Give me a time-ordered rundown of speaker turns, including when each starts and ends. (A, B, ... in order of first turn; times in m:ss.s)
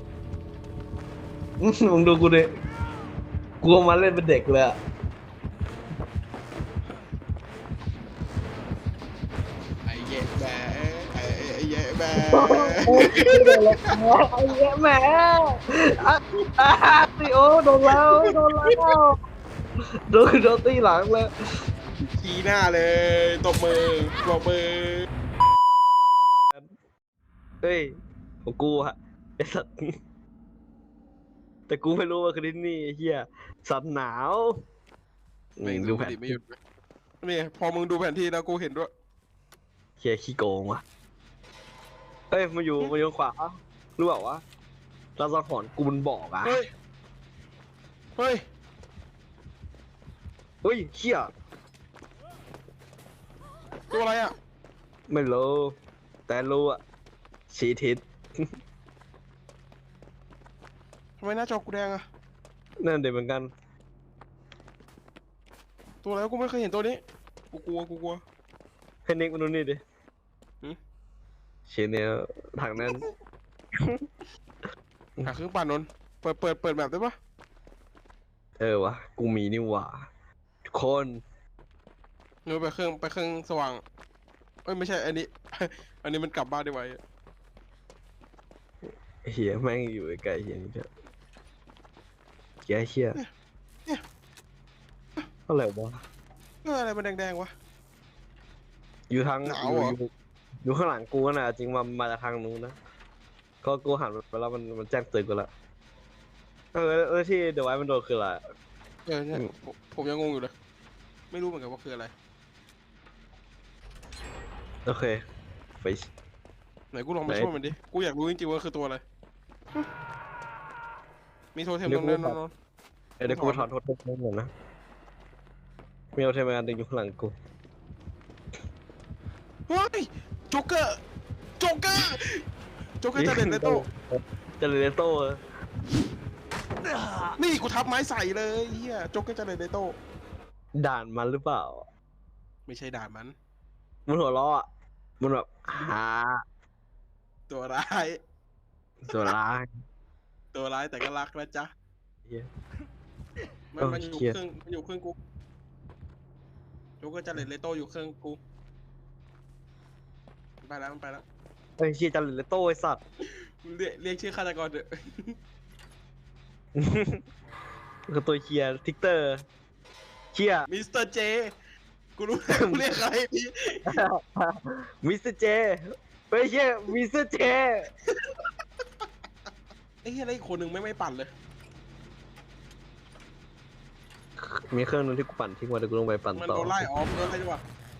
0:01.6-0:02.5 A
0:03.6-0:04.8 A
0:09.8-0:13.8 B
0:12.3-0:19.1 A
0:17.9-0:18.8 B
0:20.1-0:21.3 A
0:22.0-0:25.1 B
0:27.6-0:27.9 A
0:28.4-0:29.9 A
0:31.7-0:34.5 A
0:35.6-0:36.4 A
0:35.6-0:36.6 B
0:37.2-0:38.9 B
0:40.0-0:40.8 A
0:42.3-0:44.4 A
0:45.2-0:46.6 A
0:48.2-0:48.4 B
0:50.6-0:51.3 A
0:53.9-0:54.3 B
0:55.1-0:55.8 A
0:56.3-0:56.8 A
0:57.5-0:58.0 A
1:01.2-1:02.0 B
1:02.8-1:03.5 A
1:06.0-1:08.2 B
1:09.1-1:09.8 A
1:11.7-1:13.0 A
1:15.2-1:17.1 B
1:18.6-1:20.0 A
1:20.7-1:21.2 A
1:22.4-1:23.8 B
1:24.6-1:27.0 B
1:29.2-1:30.9 A
1:32.6-1:33.2 A
1:35.5-1:36.0 A
1:36.6-1:37.5 B
1:39.1-1:40.1 A
1:39.4-1:39.9 B
1:40.6-1:42.8 A
1:43.6-1:45.5 A
1:46.7-1:48.4 A
1:49.1-1:50.5 B
1:51.3-1:52.1 B
1:54.8-1:55.2 A
1:55.8-1:56.1 A
1:56.9-1:59.0 B
1:57.3-1:57.5 A
2:01.5-2:02.5 B
2:01.9-2:02.4 A
2:03.2-2:04.5 A
2:03.2-2:03.6 B
2:06.1-2:07.3 A
2:09.7-2:11.0 B
2:11.6-2:12.4 B
2:13.0-2:13.8 B
2:13.2-2:15.4 A
2:17.4-2:19.9 B
2:20.8-2:21.9 A
2:22.7-2:23.3 B
2:24.1-2:24.6 A
2:25.2-2:26.4 A
2:27.5-2:28.2 B
2:29.0-2:29.7 A
2:30.5-2:31.7 B
2:33.7-2:35.2 B
2:33.8-2:34.4 A
2:37.0-2:38.4 B
2:40.6-2:41.2 B
2:41.8-2:43.0 A
2:43.6-2:45.3 B
2:46.8-2:47.2 A
2:48.1-2:49.4 A
2:50.3-2:50.7 A
2:50.7-2:51.5 B
2:52.2-2:54.0 B
2:52.6-2:52.8 A
2:53.9-2:57.9 A
3:00.0-3:01.3 B
3:04.4-3:06.9 A
3:06.3-3:07.6 B